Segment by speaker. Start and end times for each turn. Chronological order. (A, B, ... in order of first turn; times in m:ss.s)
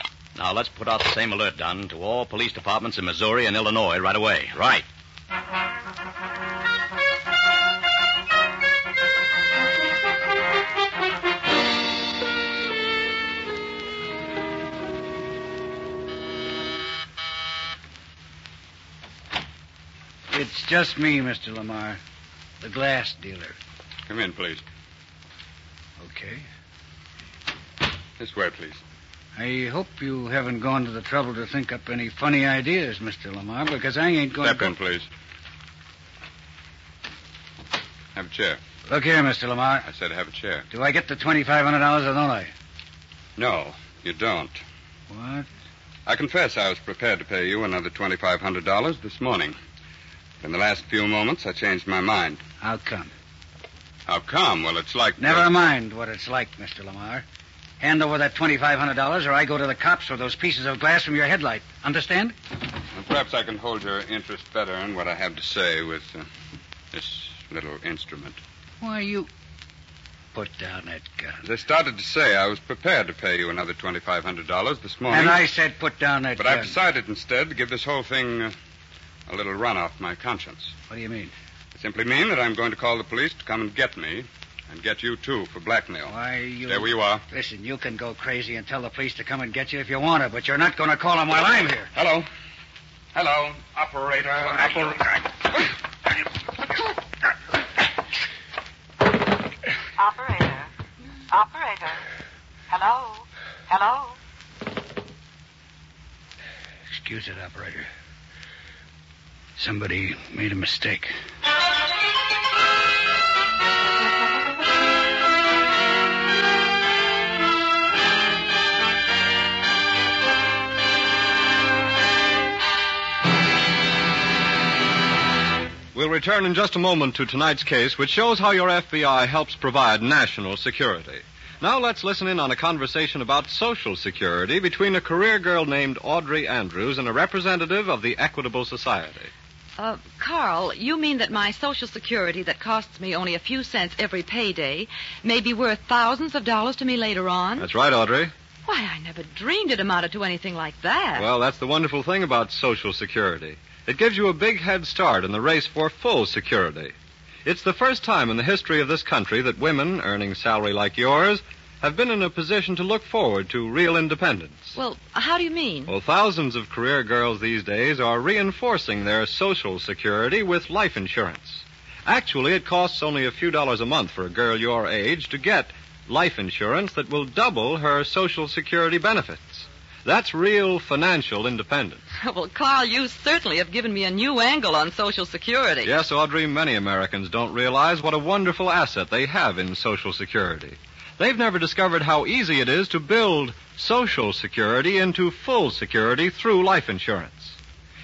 0:00.3-0:04.8 A
0:20.3-0:22.0 B
0:22.6-0:23.6 B
0:24.1-0:24.6 C
0:26.0-0:26.4 B
0:28.2-0:28.8 C
0:29.4-0:34.7 B
0:34.4-0:35.1 C
0:38.1-0:38.6 C
0:38.9-0:39.9 B
0:39.8-0:40.7 C
0:40.7-0:42.5 B
0:43.4-0:44.6 C
0:45.1-0:45.5 B
0:46.0-0:49.6 C
0:50.4-0:52.4 C
0:52.6-0:53.1 B
0:54.1-0:55.5 C
0:55.2-0:57.2 B
0:57.8-1:02.4 B
1:02.9-1:06.2 C
1:06.9-1:08.4 C
1:08.8-1:09.3 B
1:10.3-1:11.4 B
1:11.4-1:15.4 C
1:15.1-1:16.8 B
1:16.4-1:18.5 C
1:19.3-1:20.8 C
1:20.9-1:21.3 B
1:21.8-1:26.1 C
1:26.1-1:31.9 B
1:26.7-1:27.2 C
1:31.9-1:32.3 C
1:33.1-1:35.3 C
1:40.0-1:40.7 D
1:41.3-1:42.0 D
1:42.7-1:44.1 D
1:46.9-1:47.9 B
1:49.6-1:51.1 B
2:05.9-2:19.3 E
2:19.8-2:27.7 F
2:27.6-2:28.3 E
2:28.6-2:31.3 F
2:31.1-2:36.9 E
2:37.4-2:44.8 E
2:44.8-2:45.9 F
2:45.9-3:02.0 E
3:02.2-3:05.9 F
3:05.8-3:17.6 E